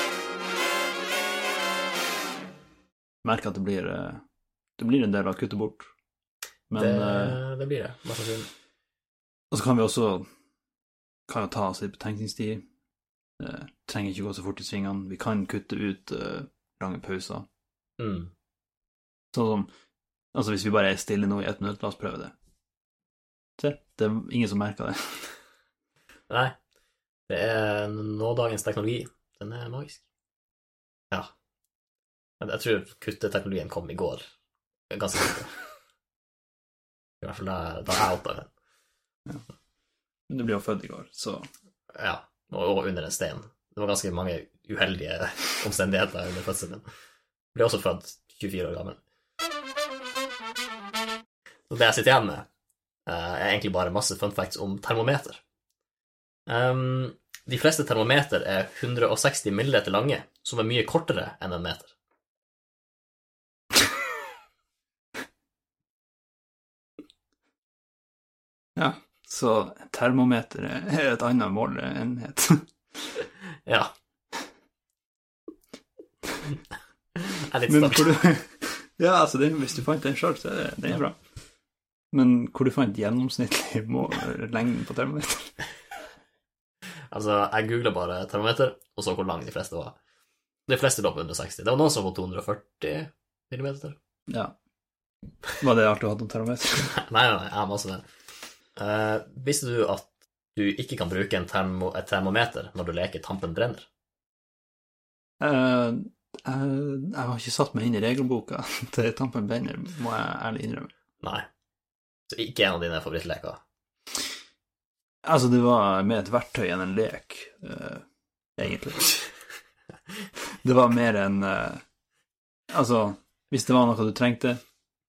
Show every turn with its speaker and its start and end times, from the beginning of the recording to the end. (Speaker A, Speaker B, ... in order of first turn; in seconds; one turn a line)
Speaker A: 3.2-4.2
Speaker A: 4.8-5.9
Speaker A: 6.7-7.4
Speaker B: 6.7-8.5
Speaker A: 9.5-10.2
Speaker A: 11.3-12.6
Speaker A: 13.4-17.4
Speaker B: 18.0-18.3
Speaker A: 19.3-19.7
Speaker A: 20.3-22.3
Speaker A: 23.6-25.3
Speaker B: 26.3-26.5
Speaker B: 27.3-30.0
Speaker B: 32.4-34.2
Speaker B: 34.9-35.6
Speaker B: 37.2-38.5
Speaker A: 40.3-41.5
Speaker B: 42.0-46.8
Speaker B: 47.5-49.0
Speaker B: 51.7-52.4
Speaker B: 53.1-55.4
Speaker B: 56.5-61.9
Speaker A: 68.8-72.6
Speaker B: 73.7-73.9
Speaker B: 77.2-78.2
Speaker A: 77.7-81.2
Speaker A: 82.1-85.5
Speaker B: 87.1-90.0
Speaker B: 90.7-94.0
Speaker A: 95.6-97.0
Speaker B: 96.9-98.0
Speaker B: 98.8-103.8
Speaker A: 105.4-110.9
Speaker B: 112.3-113.6
Speaker A: 115.2-118.0
Speaker A: 118.5-119.2
Speaker A: 120.6-121.8
Speaker A: 122.7-124.6